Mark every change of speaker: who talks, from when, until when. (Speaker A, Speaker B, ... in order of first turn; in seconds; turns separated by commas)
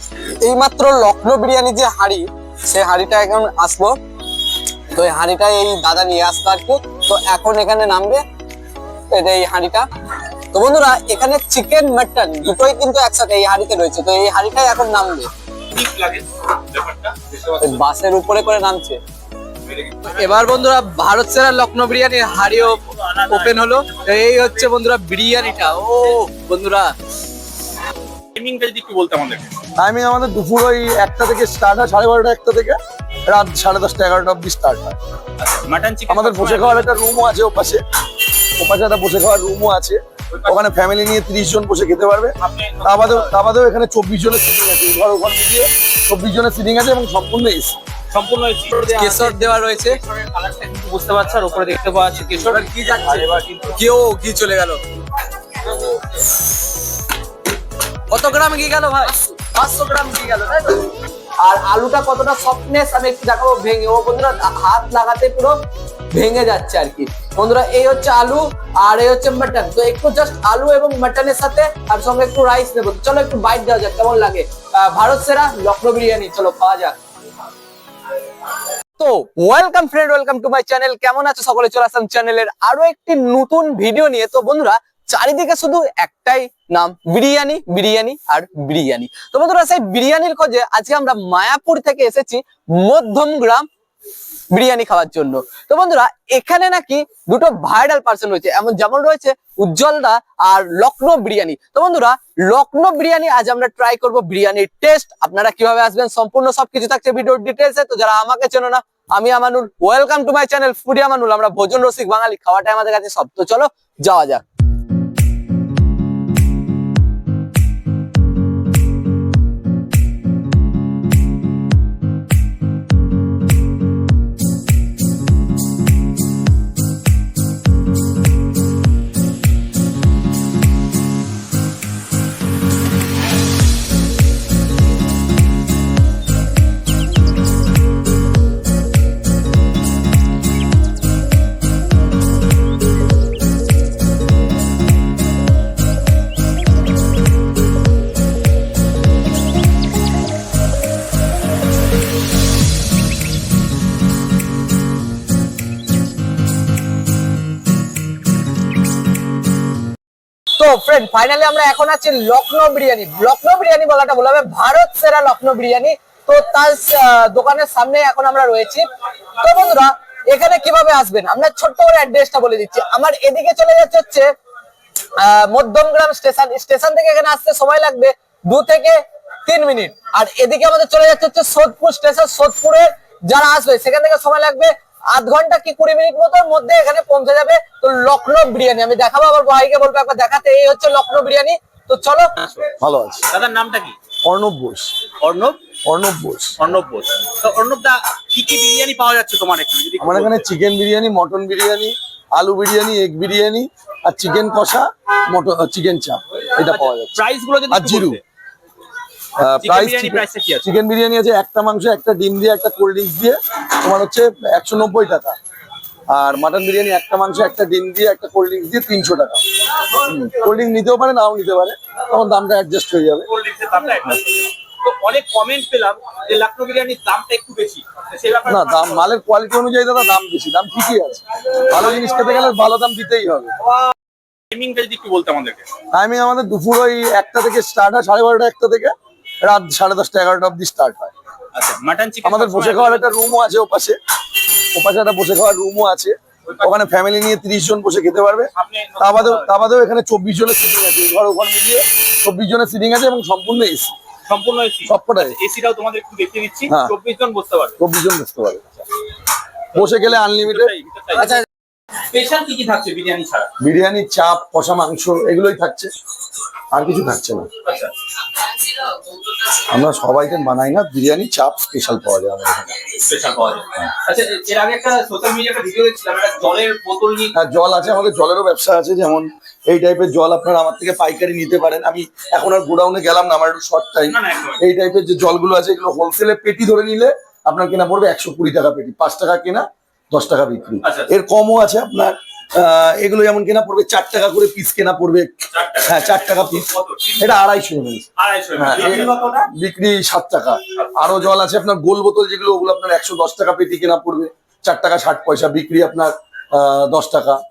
Speaker A: 0.4-4.0, Speaker A: 4.9-8.2, Speaker A: 9.1-9.9, Speaker A: 10.5-15.3, Speaker B: 15.7-17.8, Speaker A: 17.6-19.0, Speaker B: 19.7-20.3, Speaker A: 20.0-26.9, Speaker B: 22.4-24.4, Speaker B: 28.3-29.5, Speaker C: 29.8-35.0, Speaker B: 35.4-37.0, Speaker C: 36.1-37.8, Speaker C: 38.6-47.7, Speaker B: 40.3-40.6, Speaker B: 42.4-43.4, Speaker B: 48.1-53.8, Speaker A: 48.9-50.0, Speaker A: 52.5-54.8, Speaker A: 55.6-55.9, Speaker A: 58.1-65.5, Speaker A: 66.1-77.0, Speaker A: 79.0-93.7, Speaker A: 94.5-114.4, Speaker A: 160.6-168.9, Speaker A: 169.4-174.3, Speaker A: 175.2-192.4, Speaker C: 192.7-193.3, Speaker B: 193.3-193.9, Speaker C: 194.2-194.9, Speaker B: 195.2-195.6, Speaker C: 195.8-196.6, Speaker B: 196.6-200.5, Speaker C: 200.0-208.2, Speaker B: 206.6-208.2, Speaker C: 209.3-215.3, Speaker B: 209.6-210.7, Speaker C: 216.1-223.3, Speaker B: 223.2-229.1, Speaker C: 228.4-233.5, Speaker B: 231.7-232.4, Speaker B: 234.5-235.7, Speaker C: 235.9-241.1, Speaker B: 241.5-243.3, Speaker C: 242.2-244.0, Speaker C: 244.7-253.9, Speaker B: 246.4-246.7, Speaker B: 248.6-249.5, Speaker B: 254.3-257.8, Speaker C: 254.8-255.4, Speaker C: 256.7-256.9, Speaker C: 257.8-258.8, Speaker C: 259.7-260.7, Speaker B: 259.8-261.4, Speaker A: 261.2-261.4, Speaker B: 262.1-263.5, Speaker C: 263.6-265.9, Speaker C: 266.7-267.5, Speaker B: 267.6-267.9, Speaker C: 269.5-272.9, Speaker B: 272.9-277.3, Speaker C: 277.3-296.7, Speaker B: 284.0-284.6, Speaker B: 290.8-291.1, Speaker B: 295.5-297.4, Speaker C: 297.2-307.4, Speaker B: 298.2-299.5, Speaker B: 300.8-301.1